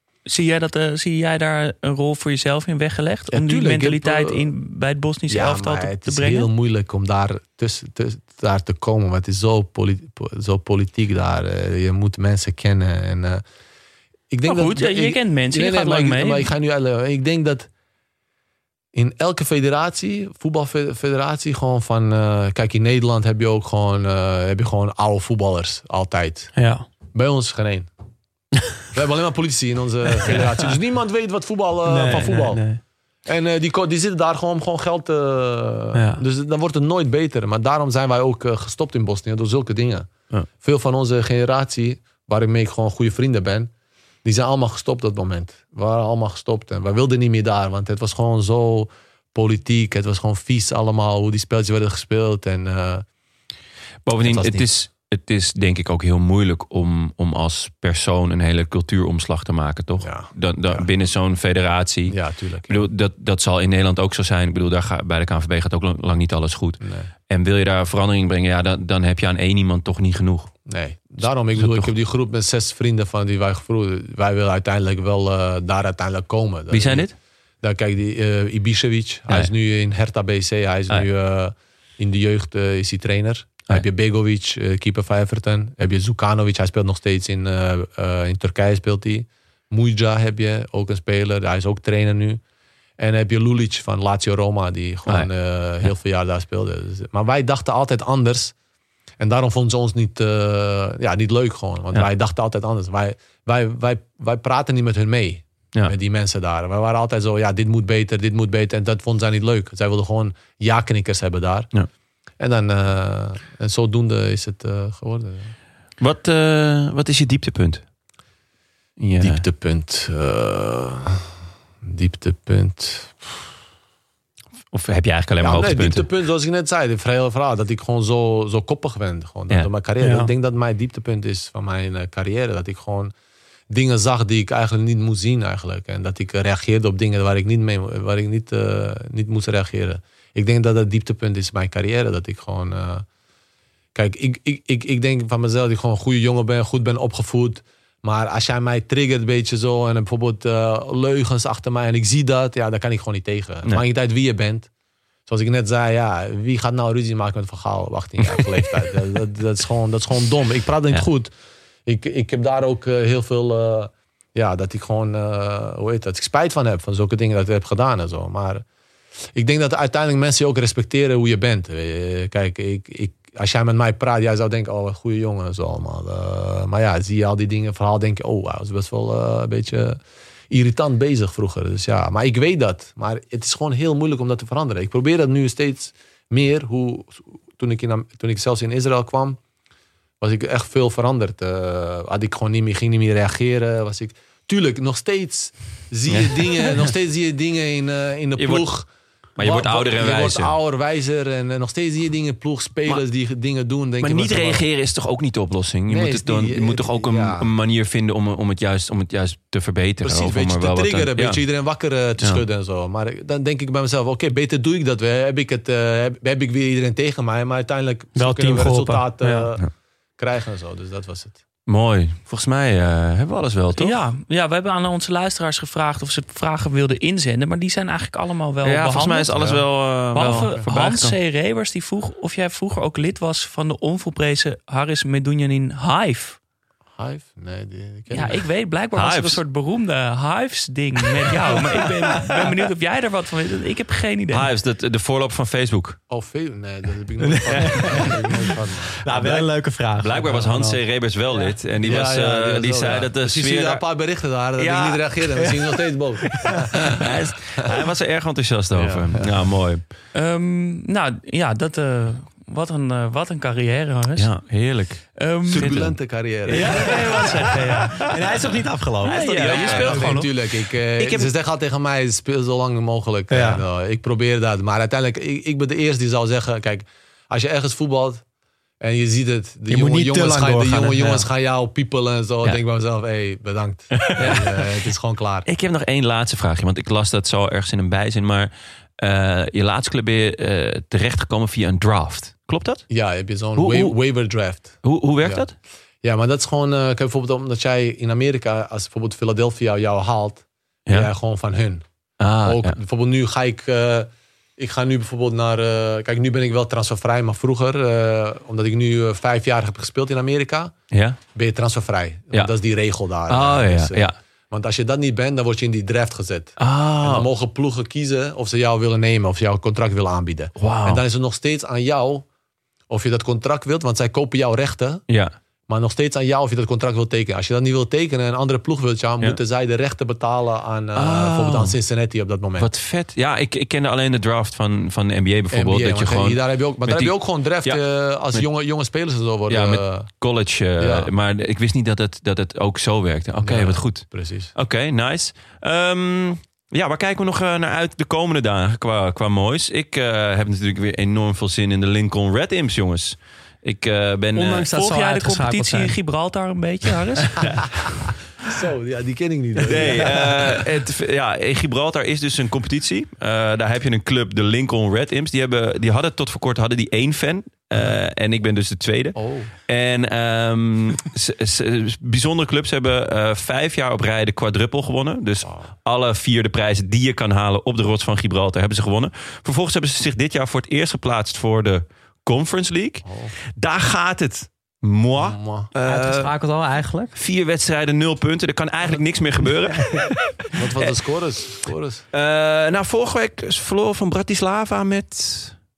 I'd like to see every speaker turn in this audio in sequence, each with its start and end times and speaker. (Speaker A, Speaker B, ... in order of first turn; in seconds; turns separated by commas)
Speaker A: 0.3-6.5, Speaker B: 3.3-4.4, Speaker B: 5.3-13.4, Speaker B: 14.3-17.7, Speaker A: 14.5-16.5, Speaker B: 18.9-26.5, Speaker C: 26.5-26.8, Speaker B: 27.1-27.9, Speaker B: 28.9-32.6, Speaker C: 31.8-32.8, Speaker B: 33.2-43.7, Speaker C: 35.9-36.2, Speaker B: 44.2-53.0, Speaker D: 54.0-62.2, Speaker B: 54.2-54.7, Speaker B: 60.0-60.9, Speaker B: 62.1-62.9, Speaker D: 62.7-70.5, Speaker B: 66.8-67.1, Speaker B: 70.7-77.1, Speaker D: 71.5-71.9, Speaker D: 76.7-77.1, Speaker B: 77.6-92.4, Speaker B: 93.0-98.5, Speaker B: 99.2-111.7, Speaker B: 112.4-115.5, Speaker D: 116.0-117.8, Speaker D: 119.0-119.4, Speaker B: 119.2-121.3, Speaker B: 121.8-123.3, Speaker D: 124.7-126.0, Speaker B: 125.4-133.1, Speaker C: 130.0-130.3, Speaker B: 133.7-143.0, Speaker B: 143.9-154.7, Speaker B: 155.3-161.3, Speaker B: 161.8-168.6, Speaker B: 169.3-180.0, Speaker B: 180.5-189.4, Speaker B: 190.2-204.6, Speaker D: 196.1-196.8, Speaker D: 198.4-198.7, Speaker D: 199.4-200.5, Speaker D: 204.0-211.4, Speaker B: 205.9-207.5, Speaker B: 210.0-219.7, Speaker C: 218.1-219.5, Speaker B: 220.2-221.4, Speaker D: 221.7-224.0, Speaker A: 223.7-236.4, Speaker D: 228.6-231.2, Speaker B: 229.3-229.6, Speaker B: 230.2-230.7, Speaker B: 236.9-238.4, Speaker A: 238.1-244.5, Speaker D: 238.9-239.4, Speaker D: 244.3-246.0, Speaker B: 246.1-249.0, Speaker C: 247.2-250.8, Speaker D: 247.7-248.1, Speaker D: 249.1-254.0, Speaker B: 251.8-257.0, Speaker D: 254.6-255.6, Speaker D: 256.5-259.9, Speaker B: 258.7-259.4, Speaker A: 260.1-264.5, Speaker D: 264.1-268.1, Speaker A: 265.1-266.0, Speaker B: 265.4-267.1, Speaker C: 266.5-269.9, Speaker A: 266.5-268.0, Speaker A: 269.0-270.3, Speaker D: 269.0-270.4, Speaker B: 269.4-278.2, Speaker D: 270.9-271.3, Speaker C: 273.3-273.6, Speaker B: 278.8-285.4, Speaker C: 279.7-281.2, Speaker D: 284.0-284.6, Speaker D: 285.4-292.9, Speaker B: 292.9-295.4, Speaker D: 293.6-294.0, Speaker D: 294.8-295.6, Speaker B: 296.0-301.8, Speaker D: 302.2-302.8, Speaker B: 302.4-310.7, Speaker D: 310.9-311.2, Speaker B: 311.3-322.2, Speaker D: 313.3-314.1, Speaker D: 316.6-317.3, Speaker D: 320.6-321.0, Speaker B: 322.9-325.0, Speaker D: 325.1-325.3, Speaker B: 325.7-332.7, Speaker D: 330.9-331.8, Speaker D: 332.6-338.4, Speaker B: 335.5-340.1, Speaker D: 339.5-354.7, Speaker B: 340.8-341.1, Speaker B: 343.4-344.5, Speaker C: 354.3-355.9, Speaker A: 354.7-357.6, Speaker B: 358.5-360.6, Speaker D: 359.7-386.3, Speaker B: 367.7-368.0, Speaker B: 369.1-369.5, Speaker B: 375.4-375.7, Speaker B: 383.0-383.3, Speaker B: 385.2-385.7, Speaker C: 385.8-387.1, Speaker D: 387.1-390.9, Speaker B: 390.5-392.0, Speaker D: 392.1-395.6